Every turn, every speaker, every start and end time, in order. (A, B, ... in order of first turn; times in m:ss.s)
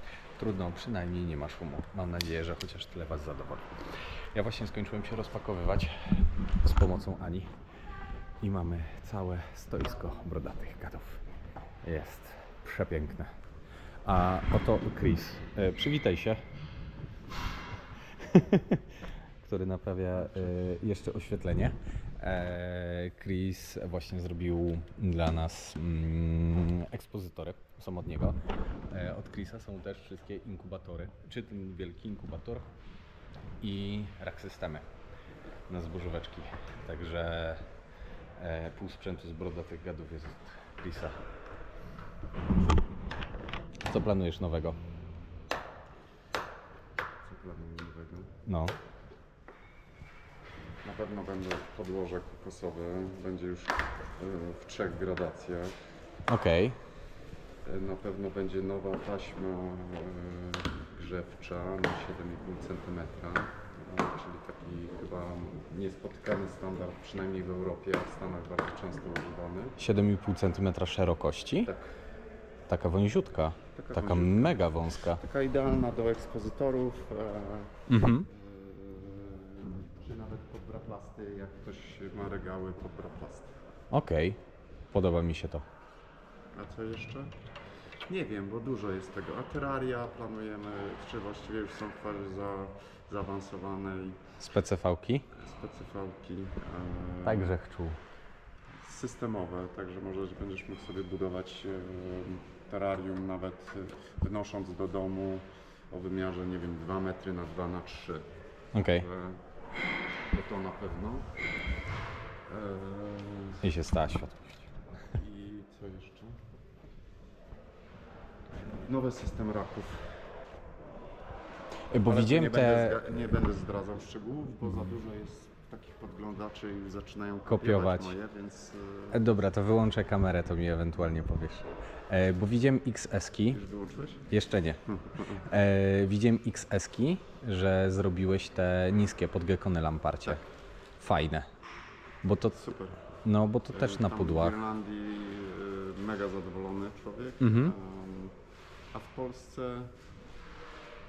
0:00.4-0:03.8 A
0:04.3-0:07.5 A
0:08.4-0:11.2 A
0:11.8-0:13.3 A
0:14.0-0:16.4 A
0:18.2-0:18.8 A
0:19.4-0:28.4 A
0:28.9-0:32.7 A
0:33.6-0:34.9 A
0:35.7-0:37.6 A
0:38.4-0:41.2 A
0:43.9-0:44.8 A
0:47.2-0:48.3 B
0:48.5-0:48.7 A
0:50.8-0:55.7 B
0:56.3-0:56.8 A
0:57.6-1:09.8 B
1:09.8-1:11.7 A
1:11.6-1:11.9 B
1:12.7-1:15.2 A
1:13.8-1:23.6 B
1:17.9-1:18.3 A
1:23.9-1:24.4 A
1:24.9-1:25.6 A
1:26.5-1:27.3 B
1:28.1-1:34.2 B
1:34.4-1:35.2 A
1:35.3-1:37.5 B
1:37.2-1:38.0 A
1:38.8-1:48.3 B
1:48.7-1:49.1 A
1:48.8-1:49.4 B
1:50.3-1:51.3 B
1:52.5-1:53.6 B
1:53.6-1:54.7 A
1:55.1-1:56.4 B
1:58.6-2:00.2 B
2:01.9-2:03.0 A
2:02.0-2:09.2 B
2:07.5-2:08.1 A
2:09.1-2:13.6 A
2:13.5-2:14.3 B
2:14.3-2:14.8 A
2:14.9-2:15.4 B
2:15.5-2:20.4 A
2:21.0-2:21.5 A
2:22.2-2:22.6 A
2:22.5-2:23.0 B
2:23.2-2:24.6 A
2:23.7-2:28.4 B
2:27.4-2:27.7 A
2:28.9-2:29.9 B